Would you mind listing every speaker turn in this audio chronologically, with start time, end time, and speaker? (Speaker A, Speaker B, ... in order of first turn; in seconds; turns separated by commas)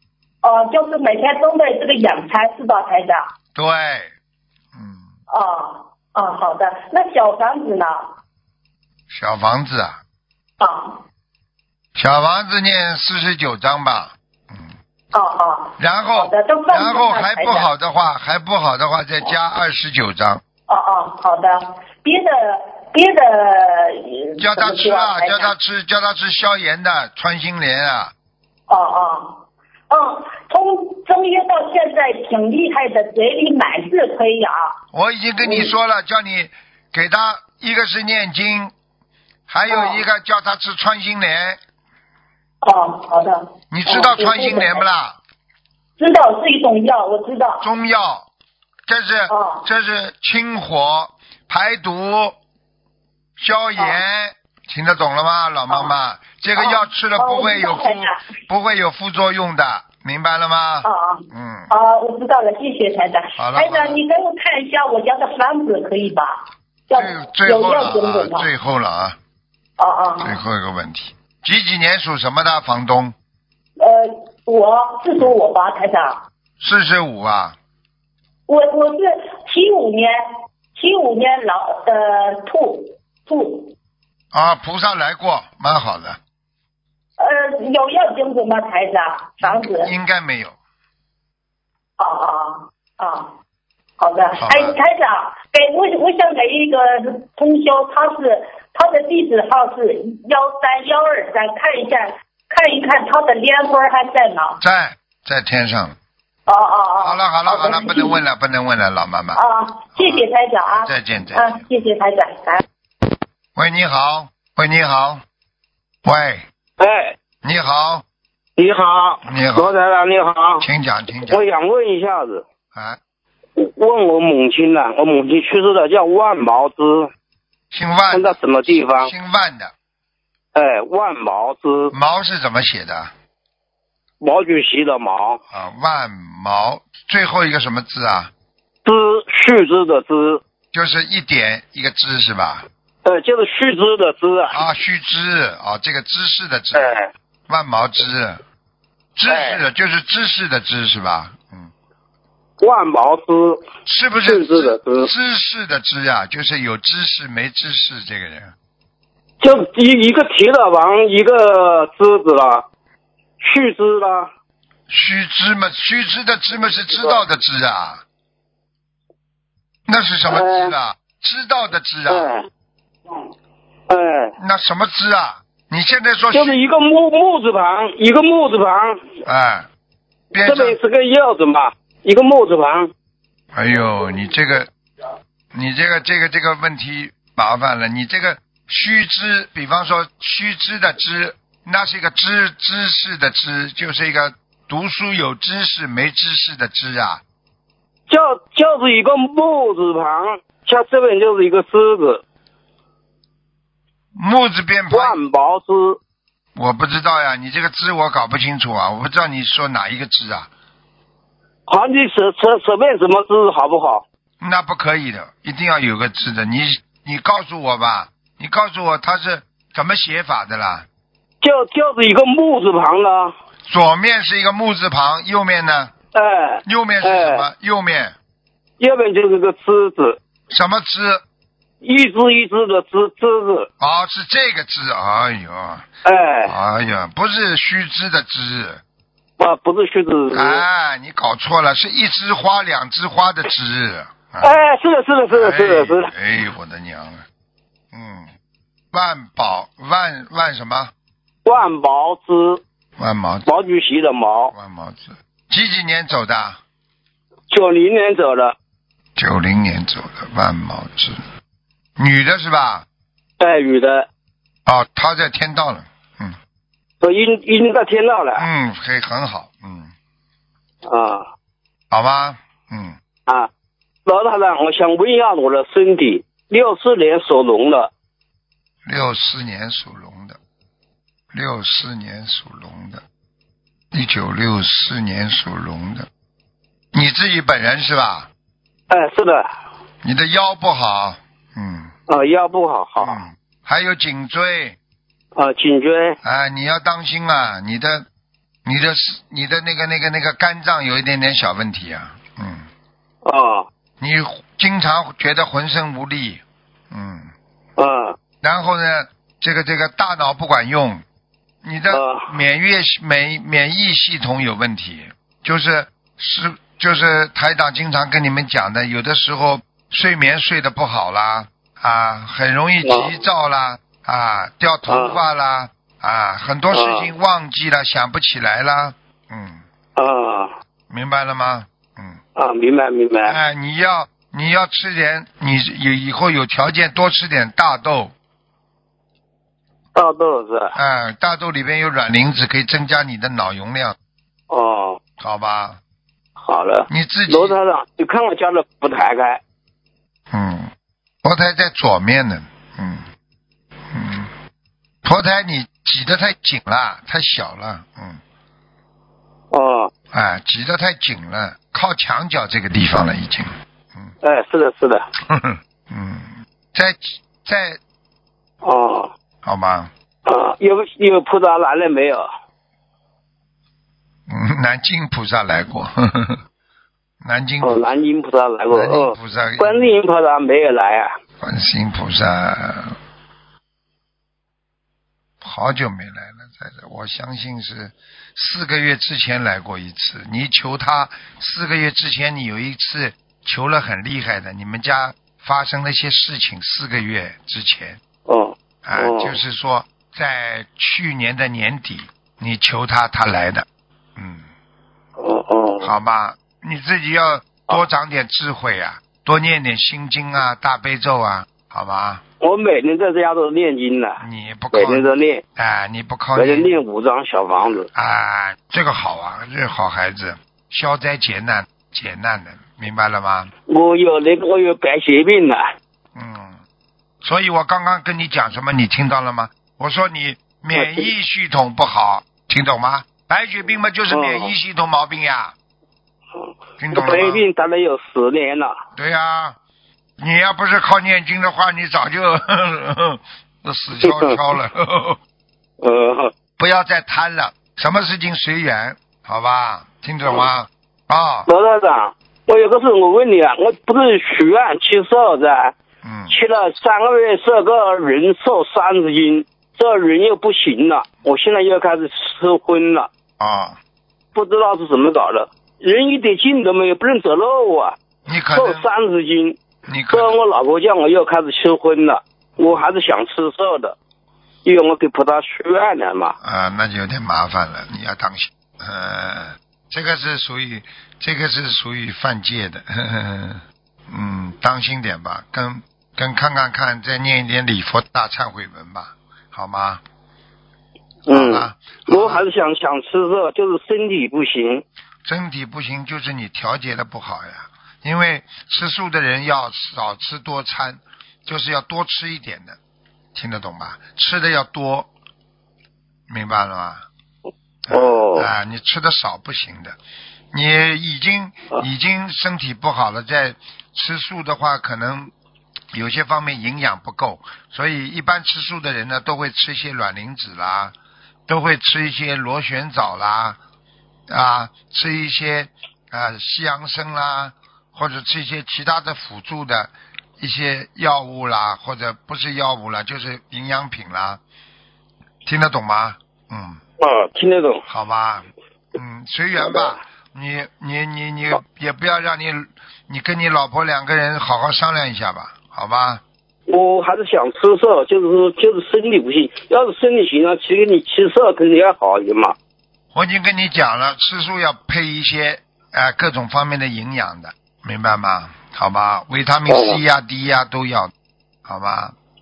Speaker A: 0.4-3.2, Speaker B: 3.5-4.1, Speaker B: 4.7-5.1, Speaker A: 5.3-8.1, Speaker B: 9.1-10.0, Speaker A: 10.6-11.0, Speaker B: 11.9-14.7, Speaker A: 15.1-17.7, Speaker B: 15.8-20.4, Speaker A: 20.7-25.5, Speaker B: 24.4-28.1, Speaker A: 28.7-34.7, Speaker B: 34.9-38.7, Speaker A: 35.4-35.7, Speaker B: 39.5-41.6, Speaker A: 39.7-40.0, Speaker A: 42.6-44.9, Speaker B: 43.7-45.2, Speaker A: 46.0-47.6, Speaker B: 47.6-48.3, Speaker B: 48.9-52.4, Speaker A: 49.3-49.6, Speaker B: 53.4-61.7, Speaker A: 56.5-58.2, Speaker A: 60.8-68.5, Speaker B: 63.4-64.0, Speaker B: 66.9-69.2, Speaker A: 69.8-70.3, Speaker B: 70.2-73.1, Speaker A: 73.8-76.2, Speaker B: 76.6-77.5, Speaker A: 78.5-80.2, Speaker A: 80.8-83.7, Speaker B: 84.3-86.2, Speaker A: 87.2-89.9, Speaker B: 89.4-90.5, Speaker A: 92.0-93.3, Speaker A: 94.0-104.6, Speaker B: 94.4-94.8, Speaker B: 104.6-105.9, Speaker A: 106.5-108.2, Speaker B: 107.0-109.4, Speaker A: 109.3-112.6, Speaker B: 110.0-111.7, Speaker B: 113.5-115.2, Speaker B: 116.0-116.4, Speaker C: 116.8-117.2, Speaker B: 117.4-118.0, Speaker C: 118.6-120.7, Speaker B: 119.2-119.7, Speaker B: 120.6-121.5, Speaker C: 121.3-122.4, Speaker B: 122.7-123.0, Speaker C: 123.6-127.1, Speaker B: 127.7-129.7, Speaker C: 128.1-129.1, Speaker C: 130.5-131.9, Speaker B: 131.9-133.1, Speaker C: 134.2-135.4, Speaker B: 135.5-138.3, Speaker C: 138.8-140.4, Speaker B: 140.7-142.7, Speaker C: 143.0-144.6, Speaker B: 144.5-147.0, Speaker C: 146.7-147.1, Speaker B: 147.5-148.4, Speaker B: 149.2-151.7, Speaker C: 149.3-149.6, Speaker C: 152.6-153.6, Speaker B: 153.8-158.5, Speaker C: 154.2-155.1, Speaker C: 159.4-162.7, Speaker C: 163.4-164.3, Speaker B: 164.9-168.0, Speaker C: 166.9-167.2, Speaker B: 169.9-172.3, Speaker C: 170.3-170.7, Speaker C: 172.1-172.4, Speaker C: 173.9-174.3, Speaker B: 174.4-176.6, Speaker C: 176.3-179.0, Speaker B: 179.2-179.7, Speaker B: 180.3-180.8, Speaker C: 180.4-182.9, Speaker B: 183.5-184.7, Speaker B: 185.5-197.2, Speaker C: 198.1-202.2, Speaker B: 204.1-205.2, Speaker C: 204.9-206.0, Speaker B: 206.5-210.5, Speaker C: 211.7-214.0, Speaker B: 214.4-220.9, Speaker C: 221.4-223.3, Speaker B: 223.7-225.9, Speaker C: 226.1-227.4, Speaker B: 226.6-228.1, Speaker C: 228.8-230.2, Speaker B: 230.5-231.2, Speaker C: 231.8-233.7, Speaker B: 233.8-235.9, Speaker C: 236.0-236.6, Speaker B: 236.5-238.8, Speaker C: 239.4-240.6, Speaker B: 240.3-244.6, Speaker C: 244.4-246.1, Speaker B: 245.3-247.2, Speaker B: 247.9-248.3, Speaker B: 248.9-250.9, Speaker C: 251.4-252.6, Speaker B: 253.0-253.5, Speaker C: 253.4-254.5, Speaker B: 254.5-256.6, Speaker C: 257.5-258.5, Speaker B: 259.1-261.2, Speaker B: 262.0-262.9, Speaker C: 263.4-264.1, Speaker B: 264.6-266.3, Speaker C: 267.0-268.4, Speaker B: 268.4-269.9, Speaker C: 270.8-271.3, Speaker B: 271.9-273.0, Speaker C: 274.1-277.9, Speaker B: 278.8-280.4, Speaker B: 281.3-283.0, Speaker B: 283.9-286.1, Speaker B: 286.9-288.3, Speaker C: 288.9-289.5, Speaker B: 290.0-291.9, Speaker C: 292.1-293.2, Speaker B: 293.0-294.8, Speaker C: 295.3-296.2, Speaker B: 296.2-298.1, Speaker B: 298.6-302.6, Speaker C: 303.2-303.7, Speaker B: 304.0-307.3, Speaker C: 307.8-308.2, Speaker B: 308.4-311.0, Speaker B: 311.6-329.6, Speaker C: 311.9-312.3, Speaker C: 322.8-323.2, Speaker C: 324.9-325.2, Speaker C: 326.7-327.1, Speaker C: 329.9-330.5, Speaker B: 330.9-332.2, Speaker C: 332.4-333.4, Speaker B: 333.2-338.1, Speaker C: 339.9-340.7, Speaker B: 340.7-343.9, Speaker C: 344.5-345.0, Speaker B: 345.2-345.8, Speaker C: 346.4-349.4, Speaker B: 346.9-347.6, Speaker B: 350.3-350.7, Speaker B: 351.2-353.0, Speaker B: 353.9-354.3, Speaker B: 355.0-358.2, Speaker C: 359.5-359.9, Speaker B: 360.1-364.1, Speaker C: 364.2-365.1, Speaker B: 365.3-367.8, Speaker C: 368.6-369.1, Speaker B: 369.4-369.9, Speaker C: 370.2-372.3, Speaker B: 374.3-376.4, Speaker B: 377.2-377.9, Speaker C: 377.6-381.1, Speaker B: 378.7-380.0, Speaker B: 381.4-383.0, Speaker B: 385.4-398.0, Speaker C: 398.3-399.4, Speaker B: 398.9-403.6, Speaker B: 404.2-404.5, Speaker C: 405.2-405.9, Speaker B: 405.8-412.2, Speaker C: 412.4-414.2, Speaker B: 414.2-416.8, Speaker C: 414.7-415.4, Speaker C: 416.3-417.9, Speaker B: 417.9-423.5, Speaker C: 423.7-425.6, Speaker B: 426.1-426.6, Speaker B: 427.2-435.5, Speaker C: 430.7-431.1, Speaker C: 434.1-434.5, Speaker C: 436.4-438.7, Speaker B: 436.8-437.4, Speaker B: 438.9-439.6, Speaker B: 440.2-445.2, Speaker C: 444.0-444.4, Speaker C: 445.8-446.3, Speaker B: 446.6-451.5, Speaker C: 451.5-455.7, Speaker B: 456.0-456.4, Speaker C: 456.3-463.1, Speaker B: 463.4-463.8, Speaker C: 464.3-467.9, Speaker B: 468.3-468.9, Speaker C: 468.5-469.6, Speaker B: 469.9-470.4, Speaker C: 470.1-473.9, Speaker C: 474.6-476.3, Speaker B: 476.4-490.0, Speaker C: 491.3-494.8, Speaker B: 491.3-492.5, Speaker B: 495.2-502.8, Speaker B: 503.3-505.1, Speaker B: 506.3-507.1, Speaker B: 507.9-510.0, Speaker C: 507.9-508.5, Speaker B: 510.5-515.3, Speaker B: 515.9-520.9, Speaker B: 521.5-523.6, Speaker B: 524.3-534.4, Speaker B: 535.4-536.8, Speaker C: 537.0-537.8, Speaker B: 537.9-546.2, Speaker C: 539.5-540.0, Speaker C: 546.7-552.5, Speaker B: 553.1-561.1, Speaker C: 559.7-560.0, Speaker B: 561.6-562.1